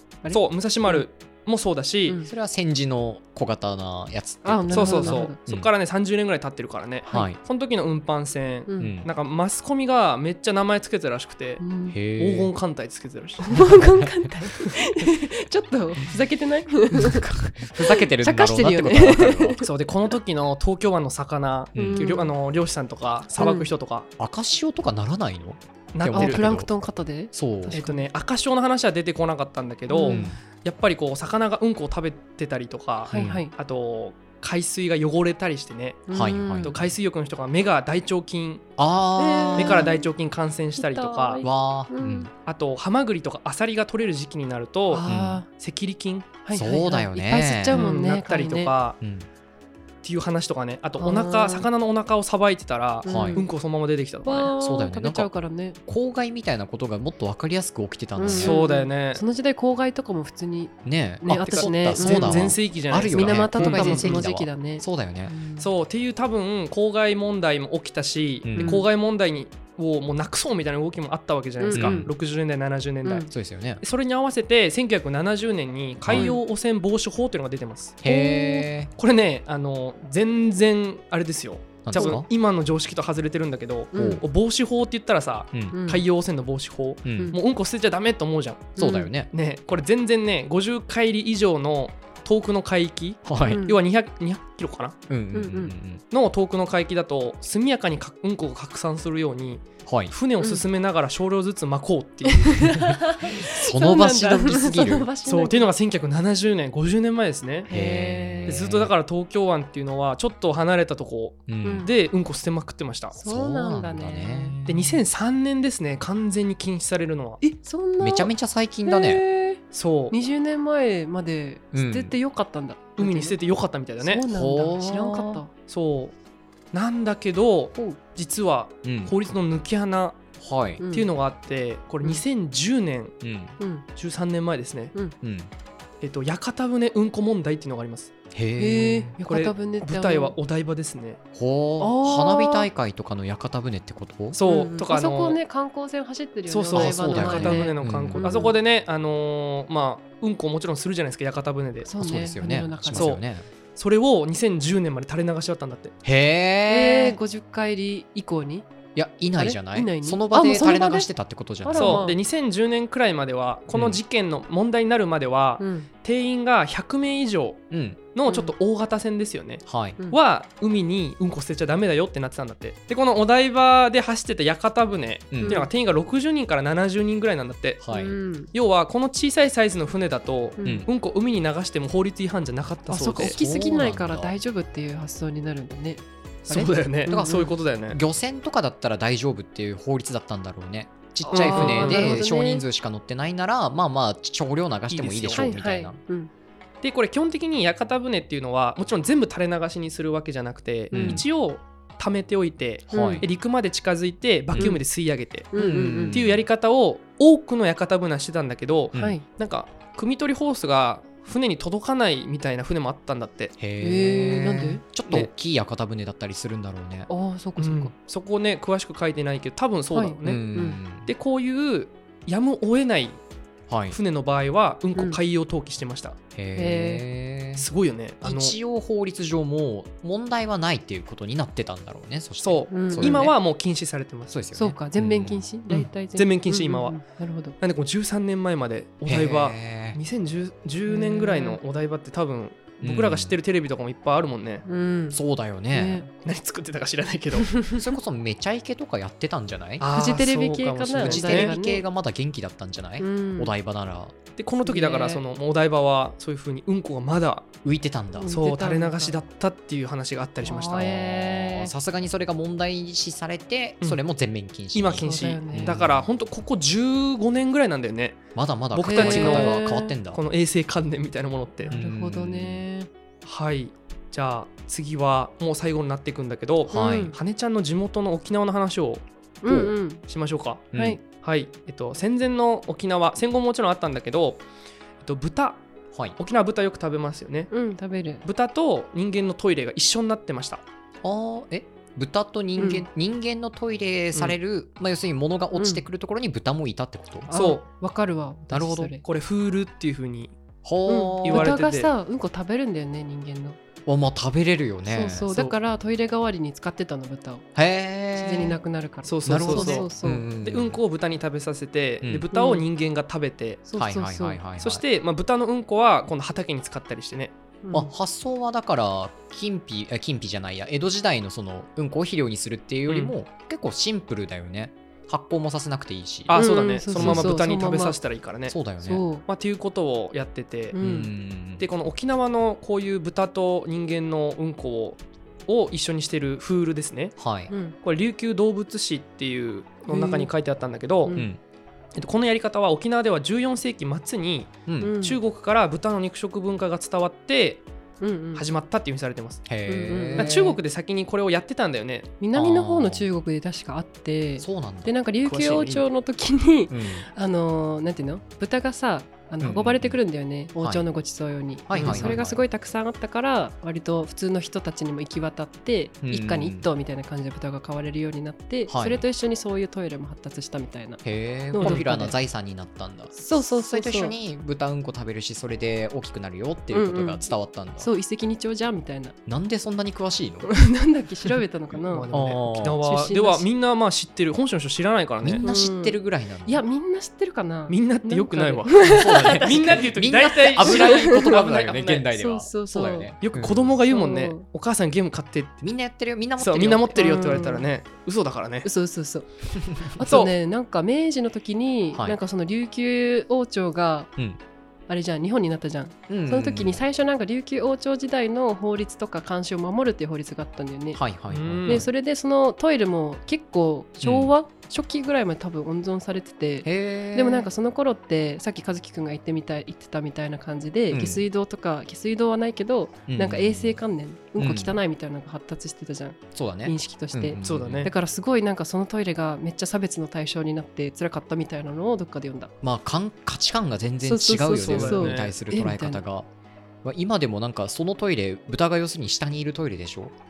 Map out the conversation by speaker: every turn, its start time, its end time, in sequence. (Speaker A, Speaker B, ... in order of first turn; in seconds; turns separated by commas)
Speaker A: 0.2-1.1, Speaker B: 0.3-2.2, Speaker C: 2.2-5.7, Speaker A: 4.5-5.4, Speaker B: 4.7-11.6, Speaker C: 7.1-7.4, Speaker A: 8.7-9.0, Speaker C: 8.8-9.1, Speaker A: 11.6-12.0, Speaker C: 11.9-12.5, Speaker B: 12.2-13.6, Speaker A: 13.4-19.7, Speaker C: 13.5-14.1, Speaker C: 16.9-19.6, Speaker B: 19.6-24.1, Speaker C: 21.8-22.1, Speaker A: 21.8-22.3, Speaker A: 23.4-23.7, Speaker C: 24.2-26.7, Speaker B: 25.9-26.4, Speaker A: 26.1-28.1, Speaker C: 27.3-27.8, Speaker B: 27.7-36.1, Speaker A: 29.9-30.3, Speaker C: 30.1-30.4, Speaker A: 33.1-33.5, Speaker C: 33.1-33.4, Speaker A: 36.1-36.8, Speaker C: 36.1-36.8, Speaker B: 36.6-38.6, Speaker C: 38.8-39.9, Speaker A: 39.2-40.1, Speaker B: 39.5-41.4, Speaker A: 40.8-42.3, Speaker C: 41.4-42.3, Speaker B: 42.5-46.3, Speaker A: 44.9-45.5, Speaker C: 45.1-45.4, Speaker A: 46.4-48.7, Speaker C: 46.5-47.9, Speaker B: 47.7-49.0, Speaker C: 49.0-49.3, Speaker B: 50.0-54.5, Speaker A: 51.0-51.7, Speaker A: 53.0-53.5, Speaker C: 53.1-53.4, Speaker A: 54.2-55.8, Speaker C: 54.6-55.3, Speaker C: 55.9-58.6, Speaker A: 58.2-62.6, Speaker B: 58.3-59.2, Speaker C: 60.9-65.3, Speaker B: 61.4-64.2, Speaker A: 63.1-65.7, Speaker B: 65.6-73.3, Speaker C: 68.4-68.8, Speaker A: 68.6-68.9, Speaker A: 71.6-72.1, Speaker C: 71.7-72.1, Speaker C: 73.3-73.8, Speaker B: 73.8-78.0, Speaker C: 76.0-76.3, Speaker A: 76.1-76.4, Speaker C: 78.0-78.9, Speaker A: 78.1-78.7, Speaker B: 79.0-88.8, Speaker C: 81.8-82.3, Speaker A: 81.9-82.2, Speaker A: 83.9-84.2, Speaker C: 84.0-84.2, Speaker A: 85.7-86.0, Speaker C: 87.0-87.4, Speaker A: 88.8-89.1, Speaker C: 88.8-89.3, Speaker B: 89.3-95.0, Speaker C: 93.2-93.6, Speaker A: 93.5-93.8, Speaker C: 95.1-96.0, Speaker A: 95.3-95.7, Speaker B: 96.1-102.8, Speaker C: 99.8-100.1, Speaker A: 102.3-105.7, Speaker C: 103.4-105.1, Speaker B: 105.3-107.7, Speaker A: 107.7-108.7, Speaker C: 107.7-108.9, Speaker B: 108.5-113.2, Speaker C: 111.5-111.9, Speaker A: 111.6-111.9, Speaker A: 113.1-114.6, Speaker C: 113.2-115.0, Speaker B: 114.7-117.4, Speaker A: 117.4-118.3, Speaker C: 118.0-119.2, Speaker A: 118.8-123.4, Speaker B: 119.7-120.2, Speaker C: 121.7-122.1, Speaker B: 123.0-124.2, Speaker A: 124.0-125.5, Speaker C: 124.3-125.4, Speaker B: 125.7-126.2, Speaker B: 126.7-130.2, Speaker C: 128.8-129.1, Speaker C: 130.4-130.8, Speaker A: 130.8-131.1, Speaker B: 130.9-133.2, Speaker C: 133.2-133.6, Speaker A: 133.6-133.8, Speaker B: 133.9-134.9, Speaker C: 135.2-135.5, Speaker B: 136.0-138.1, Speaker C: 138.3-139.2, Speaker A: 138.6-140.4, Speaker B: 139.3-141.2, Speaker C: 141.3-144.4, Speaker A: 141.8-142.7, Speaker B: 144.3-145.4, Speaker A: 144.5-148.6, Speaker B: 146.5-151.9, Speaker C: 146.7-148.4, Speaker A: 151.8-153.2, Speaker C: 152.0-153.4, Speaker B: 152.9-153.2, Speaker B: 153.8-155.9, Speaker C: 156.0-157.2, Speaker A: 156.7-158.7, Speaker C: 158.9-162.1, Speaker A: 159.4-161.1, Speaker A: 161.6-162.2, Speaker B: 161.8-177.8, Speaker C: 163.7-164.0, Speaker A: 165.6-165.9, Speaker C: 167.7-168.0, Speaker A: 168.3-168.5, Speaker C: 169.7-170.0, Speaker C: 175.3-175.6, Speaker A: 175.4-175.7, Speaker C: 177.8-178.2, Speaker A: 177.9-178.5, Speaker B: 178.5-183.4, Speaker A: 180.6-180.9, Speaker C: 180.6-180.9, Speaker A: 182.9-187.5, Speaker C: 183.2-184.3, Speaker B: 186.5-188.0, Speaker C: 187.1-196.0, Speaker A: 191.3-192.6, Speaker B: 191.3-192.2, Speaker B: 194.9-195.6, Speaker A: 195.3-196.3, Speaker B: 196.8-205.5, Speaker A: 200.9-201.2, Speaker C: 200.9-201.2, Speaker C: 202.9-203.2, Speaker A: 202.9-203.3, Speaker A: 204.6-204.8, Speaker A: 205.5-206.2, Speaker C: 205.6-206.5, Speaker B: 206.1-213.6, Speaker A: 208.9-209.2, Speaker C: 213.6-217.1, Speaker A: 213.8-214.8, Speaker A: 217.1-217.9, Speaker B: 217.6-220.5, Speaker A: 219.9-220.8, Speaker C: 220.2-221.1, Speaker B: 221.0-223.2, Speaker C: 223.7-224.0, Speaker B: 223.9-226.2, Speaker C: 226.3-227.7, Speaker A: 226.6-227.0, Speaker B: 227.6-228.6, Speaker C: 228.2-233.3, Speaker B: 232.4-234.3, Speaker A: 232.7-233.3, Speaker C: 234.3-235.4, Speaker A: 234.6-237.6, Speaker B: 235.7-237.0, Speaker B: 237.6-244.7, Speaker C: 239.1-240.0, Speaker A: 240.9-241.6, Speaker C: 242.8-243.4, Speaker A: 244.7-245.2, Speaker C: 245.1-246.1, Speaker A: 245.7-246.1, Speaker B: 246.2-247.6, Speaker A: 247.4-247.8, Speaker C: 247.7-249.9, Speaker B: 249.8-251.5, Speaker A: 249.9-251.8, Speaker C: 251.0-254.2, Speaker A: 253.0-253.5, Speaker B: 254.4-257.5, Speaker A: 254.6-255.2, Speaker C: 257.6-258.3, Speaker A: 258.2-259.2, Speaker B: 258.3-261.1, Speaker A: 260.4-261.7, Speaker C: 260.8-266.1, Speaker B: 264.7-269.6, Speaker A: 265.0-265.8, Speaker C: 268.4-270.2, Speaker A: 268.8-270.0, Speaker B: 270.1-271.8, Speaker A: 271.7-272.9, Speaker C: 271.7-272.6, Speaker B: 273.2-284.4, Speaker C: 276.7-277.1, Speaker A: 276.7-277.2, Speaker A: 279.4-280.0, Speaker C: 280.7-281.0, Speaker A: 280.7-281.0, Speaker B: 285.0-285.6, Speaker B: 286.2-287.5, Speaker A: 287.5-288.2, Speaker B: 288.2-290.6, Speaker C: 291.0-297.3, Speaker A: 292.6-292.9, Speaker A: 295.6-295.8, Speaker A: 297.3-299.0, Speaker B: 297.3-297.6, Speaker C: 298.5-298.9, Speaker B: 299.0-300.4, Speaker C: 300.6-301.6, Speaker A: 300.9-303.6, Speaker B: 301.2-301.9, Speaker C: 303.9-305.3, Speaker A: 304.9-307.5, Speaker C: 307.6-308.6, Speaker A: 308.1-310.3, Speaker B: 309.1-309.9, Speaker C: 309.2-310.8, Speaker B: 310.4-313.6, Speaker A: 312.3-312.6, Speaker A: 313.7-314.4, Speaker C: 313.8-314.8, Speaker B: 314.6-317.3, Speaker A: 317.6-317.9, Speaker C: 317.7-327.3, Speaker B: 322.9-323.1, Speaker B: 326.3-328.6, Speaker A: 326.3-328.0, Speaker C: 328.5-329.0, Speaker A: 328.8-329.2, Speaker B: 329.2-330.8, Speaker A: 330.7-331.1, Speaker C: 330.8-331.7, Speaker B: 331.6-337.2, Speaker C: 337.2-337.5, Speaker A: 337.5-337.8, Speaker B: 337.8-341.2, Speaker A: 339.9-340.3, Speaker A: 341.1-341.3, Speaker C: 341.1-341.4, Speaker B: 341.9-347.7, Speaker C: 344.7-344.9, Speaker A: 344.8-345.2, Speaker A: 348.0-348.5, Speaker B: 348.4-349.5, Speaker C: 349.5-350.4, Speaker A: 349.7-350.6, Speaker B: 350.2-352.1, Speaker A: 352.2-372.2, Speaker C: 352.3-353.1, Speaker C: 354.4-354.9, Speaker B: 355.2-355.9, Speaker C: 356.7-357.1, Speaker C: 359.4-360.0, Speaker C: 360.6-360.9, Speaker C: 361.7-362.4, Speaker B: 361.7-362.1, Speaker C: 366.0-366.7, Speaker C: 368.7-369.0, Speaker C: 371.0-377.9, Speaker B: 371.6-371.9, Speaker A: 373.1-374.1, Speaker A: 376.7-379.1, Speaker C: 379.3-380.5, Speaker A: 380.4-382.1, Speaker B: 381.8-385.4, Speaker C: 382.1-382.8, Speaker A: 382.8-383.5, Speaker C: 385.2-386.6, Speaker A: 385.4-389.9, Speaker B: 387.7-392.1, Speaker C: 388.8-393.7, Speaker A: 390.6-391.4, Speaker A: 392.1-393.1, Speaker B: 393.2-395.6, Speaker A: 393.9-394.4, Speaker C: 395.6-397.1, Speaker B: 396.4-398.7, Speaker A: 396.9-397.7, Speaker A: 398.6-404.1, Speaker C: 399.6-400.0, Speaker B: 400.0-400.3, Speaker A: 404.9-411.0, Speaker C: 406.1-406.8, Speaker C: 410.9-411.9, Speaker B: 411.3-411.9, Speaker A: 411.6-432.5, Speaker C: 414.0-414.3, Speaker C: 416.6-417.5, Speaker C: 420.9-421.2, Speaker C: 423.1-423.8, Speaker C: 424.4-424.8, Speaker C: 426.3-427.9, Speaker B: 427.4-427.9, Speaker C: 432.6-436.3, Speaker A: 434.0-436.0, Speaker B: 434.6-435.3, Speaker C: 436.8-440.1